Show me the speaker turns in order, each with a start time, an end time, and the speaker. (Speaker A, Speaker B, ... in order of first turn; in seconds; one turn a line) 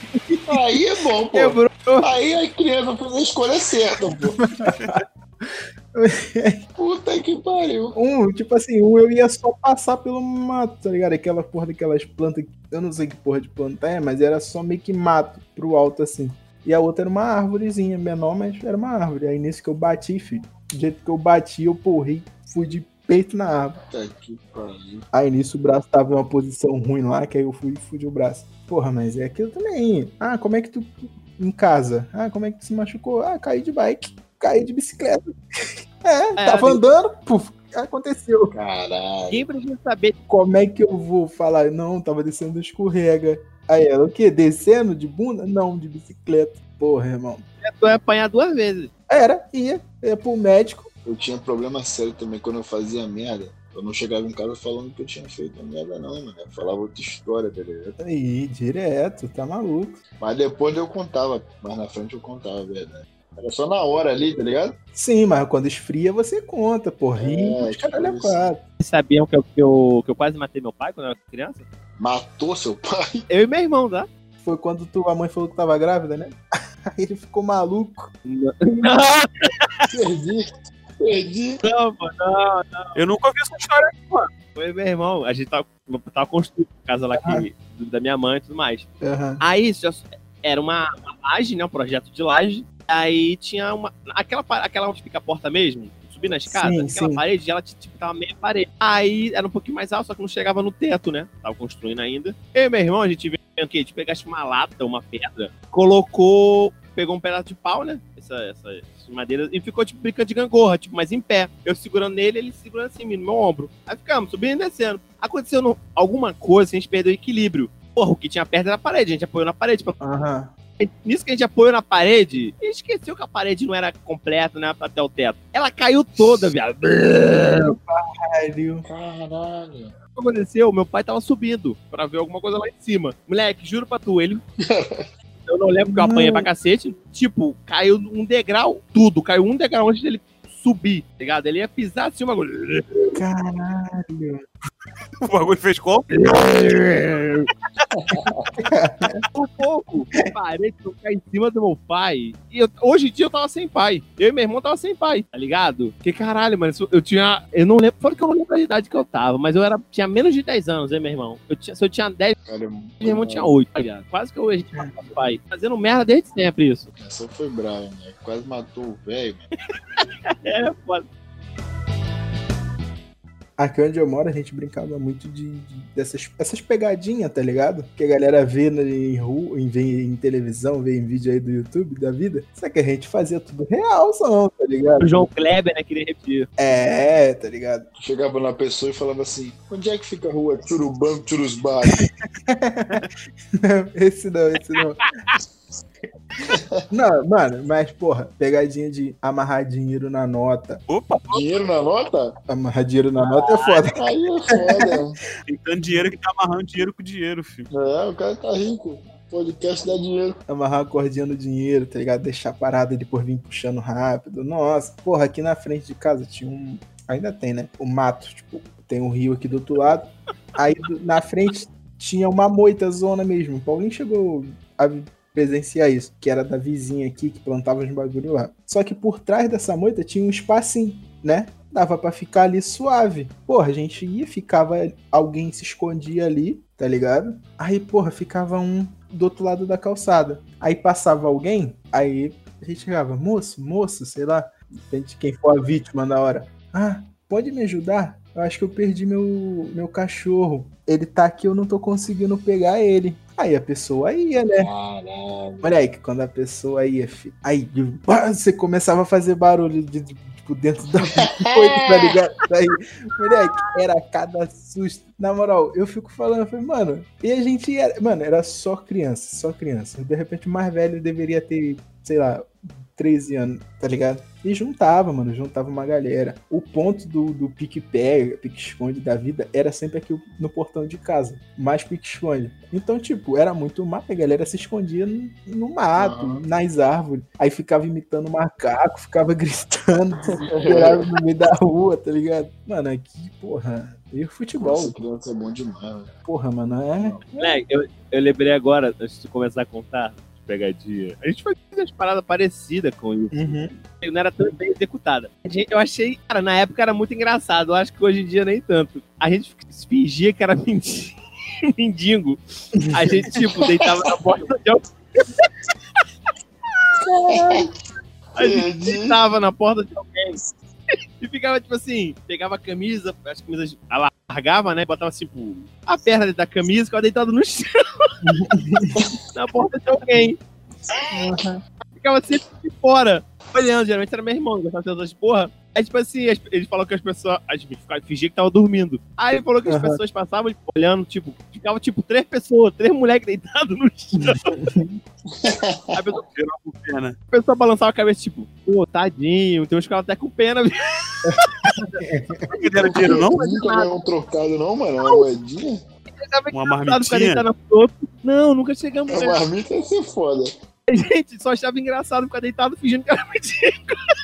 Speaker A: 0.5-4.4
Speaker B: 1.3-2.1
Speaker B: 4.4-5.0
Speaker C: 4.7-5.0
Speaker B: 5.9-6.7
Speaker A: 6.8-8.0
Speaker B: 7.9-23.8
Speaker A: 23.9-25.1
Speaker B: 25.1-35.3
Speaker B: 36.0-38.5
Speaker D: 36.4-36.8
Speaker A: 38.5-39.5
Speaker D: 39.3-40.1
Speaker B: 40.3-47.4
Speaker D: 47.6-48.9
Speaker B: 49.1-50.9
Speaker A: 51.0-58.0
Speaker B: 58.0-60.0
Speaker A: 60.2-64.8
Speaker B: 64.9-68.6
Speaker A: 67.2-68.5
Speaker D: 68.8-71.6
Speaker A: 72.0-73.2
Speaker D: 73.3-74.1
Speaker B: 74.4-76.4
Speaker B: 76.9-78.1
Speaker D: 78.3-79.9
Speaker A: 79.9-80.5
Speaker A: 81.0-81.6
Speaker D: 81.6-82.9
Speaker C: 82.9-84.3
Speaker D: 84.5-88.9
Speaker B: 87.1-87.5
Speaker B: 89.0-89.4
Speaker D: 89.4-120.0
Speaker B: 96.4-97.2
Speaker B: 120.0-120.5
Speaker D: 120.8-127.8
Speaker B: 127.7-128.9
Speaker A: 128.9-129.9
Speaker D: 130.2-134.4
Speaker A: 134.7-135.1
Speaker D: 135.5-143.2
Speaker B: 135.9-136.5
Speaker B: 143.1-144.4
Speaker C: 145.2-147.2
Speaker D: 146.2-147.4
Speaker A: 147.9-148.5
Speaker B: 148.6-149.2
Speaker D: 149.3-162.4
Speaker A: 162.4-163.5
Speaker D: 163.0-166.9
Speaker B: 164.8-165.2
Speaker A: 167.0-169.5
Speaker D: 170.0-171.1
Speaker B: 173.6-185.3
Speaker D: 185.0-186.5
Speaker B: 186.6-187.9
Speaker A: 188.0-192.1
Speaker B: 192.5-193.0
Speaker B: 193.5-195.0
Speaker A: 196.4-196.8
Speaker B: 196.9-200.8
Speaker C: 200.9-201.4
Speaker A: 201.3-202.3
Speaker B: 202.5-204.0
Speaker D: 203.2-203.8
Speaker A: 203.9-205.2
Speaker C: 205.4-207.7
Speaker A: 207.7-210.4
Speaker B: 210.5-254.7
Speaker A: 254.6-255.7
Speaker B: 255.6-295.0
Speaker A: 261.3-262.1
Speaker A: 285.9-286.4
Speaker A: 290.4-291.0
Speaker A: 294.6-296.1
Speaker B: 296.2-297.2
Speaker D: 297.4-311.1
Speaker B: 303.3-303.7
Speaker D: 311.7-315.5
Speaker A: 313.4-313.8
Speaker A: 317.0-317.7
Speaker A: 318.3-319.2
Speaker D: 318.4-320.4
Speaker D: 321.2-328.1
Speaker B: 328.2-329.0
Speaker D: 329.3-330.4
Speaker B: 331.1-331.6
Speaker D: 331.9-344.6
Speaker B: 339.7-340.0
Speaker B: 344.5-345.0
Speaker A: 345.3-346.0
Speaker D: 345.9-346.2
Speaker C: 346.3-347.2
Speaker D: 347.3-352.0
Speaker B: 352.0-352.5
Speaker D: 352.5-353.9
Speaker C: 352.5-353.4
Speaker A: 352.9-355.8
Speaker D: 356.2-359.4
Speaker C: 356.5-357.4
Speaker A: 359.1-360.5
Speaker D: 360.9-364.0